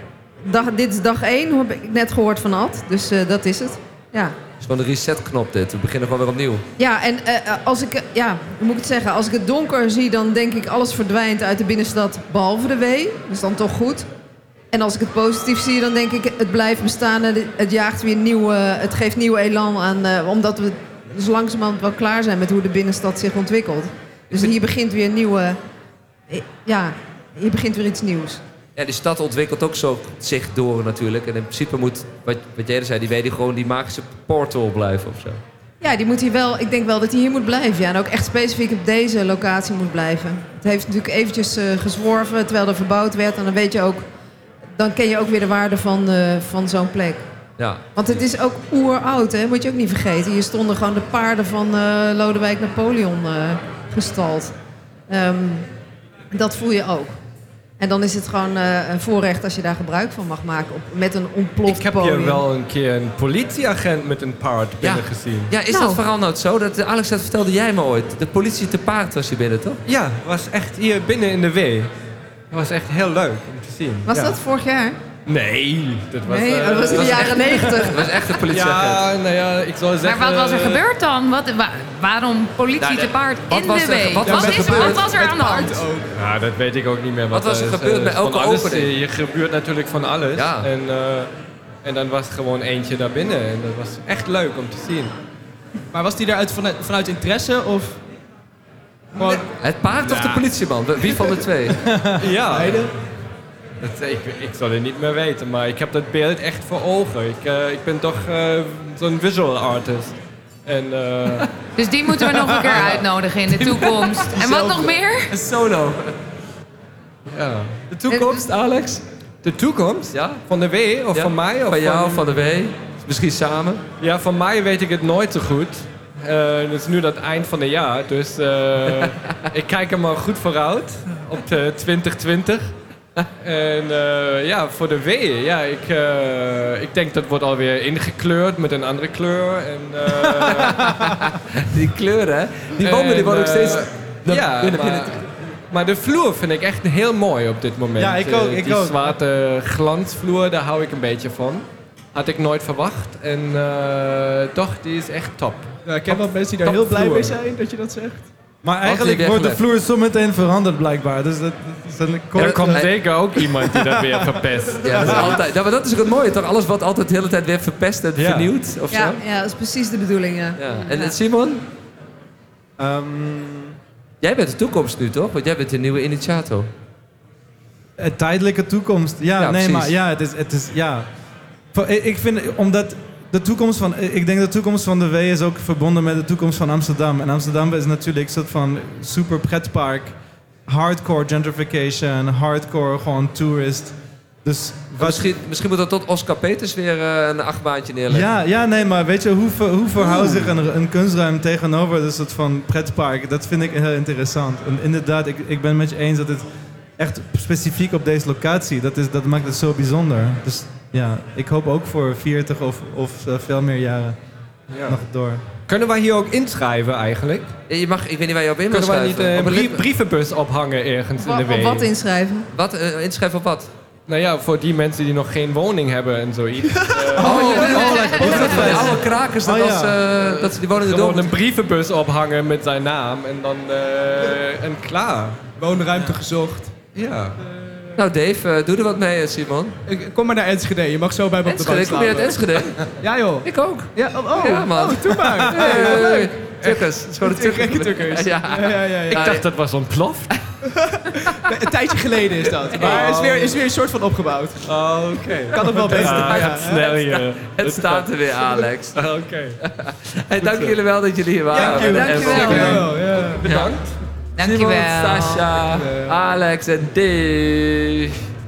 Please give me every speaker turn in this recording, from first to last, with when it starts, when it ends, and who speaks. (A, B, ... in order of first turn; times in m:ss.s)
0:00.4-0:04.3 A
0:04.6-0:06.6 B
0:06.8-0:14.1 A
0:14.7-0:25.6 A
0:26.3-0:28.4 A
0:28.8-0:35.4 B
0:35.8-0:44.0 A
0:44.8-0:47.2 A
0:48.0-0:54.5 A
0:55.1-0:55.6 A
0:56.3-0:57.1 A
0:57.8-1:02.4 A
1:01.6-1:05.5 C
1:04.8-1:09.8 B
1:05.7-1:06.0 A
1:09.9-1:11.9 C
1:12.5-1:14.3 C
1:14.0-1:15.0 A
1:15.2-1:17.6 C
1:16.3-1:18.1 A
1:16.9-1:19.0 B
1:18.5-1:20.8 C
1:20.0-1:25.9 D
1:22.8-1:25.0 B
1:24.2-1:26.2 E
1:26.1-1:31.3 C
1:27.3-1:28.9 B
1:30.3-1:30.7 B
1:31.8-1:35.1 C
1:35.9-1:38.0 E
1:39.1-1:39.5 E
1:39.6-1:41.8 B
1:40.0-1:40.4 C
1:41.7-1:42.2 F
1:42.2-1:42.9 C
1:42.5-1:42.9 E
1:43.8-1:50.1 C
1:50.6-1:51.5 C
1:51.8-1:55.3 D
1:52.6-1:54.4 B
1:54.4-1:55.0 E
1:55.3-1:56.1 B
1:57.3-1:57.8 C
1:57.9-1:59.0 B
1:58.1-1:58.4 A
1:59.4-2:02.3 C
2:00.1-2:00.4 B
2:01.1-2:03.8 B
2:04.0-2:12.7 C
2:13.4-2:20.8 C
2:20.4-2:20.8 F
2:20.5-2:25.2 B
2:22.8-2:37.4 C
2:28.0-2:29.0 F
2:35.8-2:38.3 E
2:38.6-2:42.9 F
2:38.8-2:39.6 B
2:42.3-2:45.4 C
2:42.6-2:42.9 B
2:43.5-2:44.4 F
2:44.8-2:49.2 B
2:45.0-2:45.3 F
2:48.2-2:48.5 F
2:48.9-2:51.2 A
2:50.6-2:51.6 B
2:52.8-2:53.8 F
2:54.2-2:56.7 B
2:58.0-3:01.0 F
2:59.4-2:59.9 B
3:01.7-3:10.1 F
3:10.7-3:15.3 F
3:15.0-3:18.3 B
3:18.1-3:26.4 F
3:27.0-3:34.2 F
3:34.7-3:35.0 C
3:34.8-3:35.4 F
3:35.7-3:37.5 C
3:37.7-3:39.8 B
3:38.7-3:41.9 C
3:41.2-3:42.5 A
3:42.5-3:43.7 B
3:44.1-3:48.0 C
3:46.8-3:47.6 E
3:47.2-3:51.3 B
3:47.4-3:50.0 F
3:48.0-3:48.9 D
3:50.7-3:55.4 C
3:55.6-3:56.8 E
3:57.0-3:57.3 C
3:57.4-3:57.9 E
3:58.0-3:59.7 B
3:59.8-4:02.4 E
4:01.4-4:02.9 B
4:03.0-4:09.3 E
4:03.4-4:09.4 B
4:05.1-4:05.7 F
4:09.1-4:10.3 C
4:10.6-4:14.7 E
4:11.2-4:11.5 B
4:12.7-4:13.6 C
4:14.6-4:19.6 C
4:15.5-4:16.8 E
4:15.8-4:19.0 B
4:19.6-4:22.8 B
4:20.4-4:20.8 C
4:21.5-4:23.4 E
4:21.7-4:22.8 D
4:23.3-4:23.9 C
4:23.4-4:23.8 B
4:24.4-4:25.6 D
4:24.4-4:28.2 B
4:25.7-4:26.1 E